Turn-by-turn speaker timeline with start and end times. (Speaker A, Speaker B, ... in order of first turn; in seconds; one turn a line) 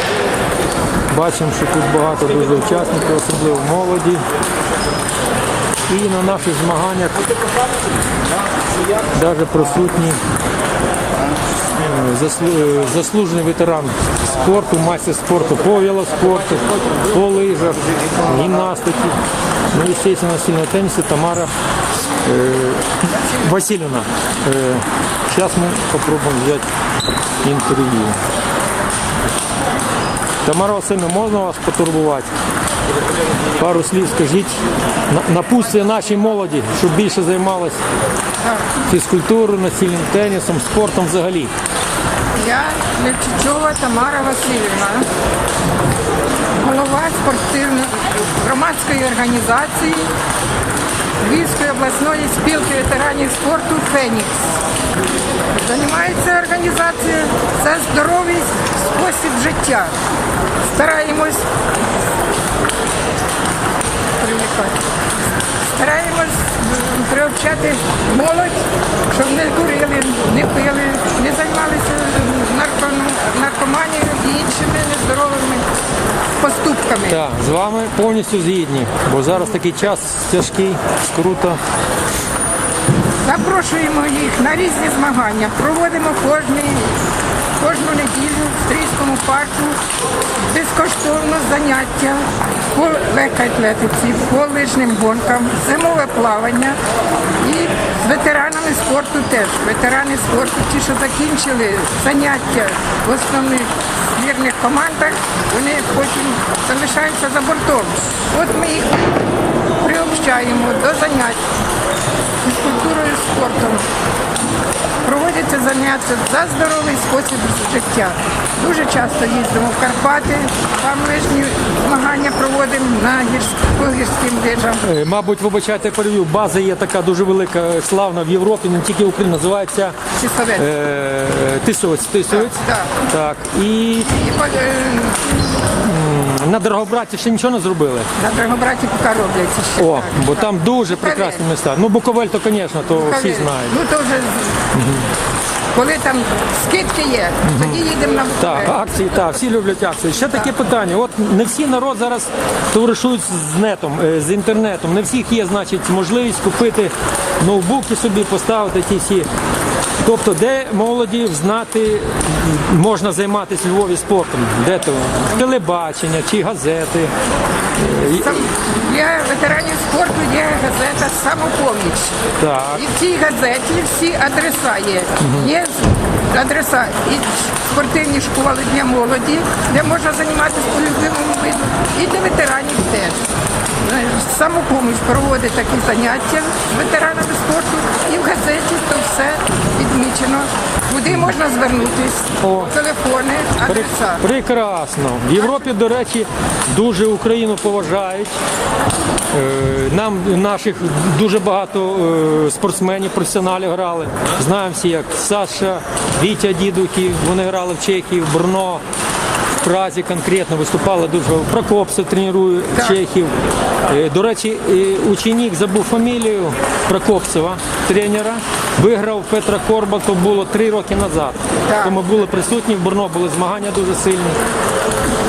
Speaker A: 1.1-4.2
Speaker A: 5.8-7.2
Speaker A: 9.1-10.2
Speaker A: 11.8-19.2
Speaker A: 19.7-21.5
Speaker A: 22.2-26.7
Speaker A: 27.4-28.2
Speaker A: 30.4-32.3
Speaker A: 33.5-37.8
Speaker B: 38.4-38.7
Speaker A: 38.9-41.5
Speaker B: 42.4-45.1
Speaker B: 46.6-50.1
Speaker B: 51.2-54.5
Speaker B: 55.5-59.9
Speaker B: 60.6-61.5
Speaker B: 64.2-64.8
Speaker B: 65.6-75.7
Speaker B: 76.4-77.2
Speaker A: 77.1-81.6
Speaker B: 83.2-87.0
Speaker B: 87.6-89.8
Speaker B: 90.4-96.8
Speaker B: 97.4-109.1
Speaker B: 109.8-111.4
Speaker B: 112.4-113.9
Speaker B: 115.0-124.8
Speaker A: 124.8-129.9
Speaker B: 130.2-130.7
Speaker A: 130.6-134.2
Speaker B: 132.3-133.0
Speaker B: 134.1-135.6
Speaker A: 135.7-138.1
Speaker B: 138.2-141.4
Speaker A: 139.8-143.8
Speaker B: 142.9-144.7
Speaker A: 144.7-145.1
Speaker B: 145.7-148.8
Speaker A: 147.4-147.8
Speaker A: 148.4-159.3
Speaker A: 160.0-167.1
Speaker A: 167.7-168.4
Speaker B: 168.1-172.2
Speaker A: 172.4-172.8
Speaker B: 172.7-183.3
Speaker A: 175.2-175.5
Speaker B: 183.8-194.2
Speaker A: 192.4-192.7
Speaker A: 193.6-198.3
Speaker A: 199.3-208.8
Speaker A: 209.6-213.3
Speaker A: 213.8-224.4
Speaker B: 221.7-222.0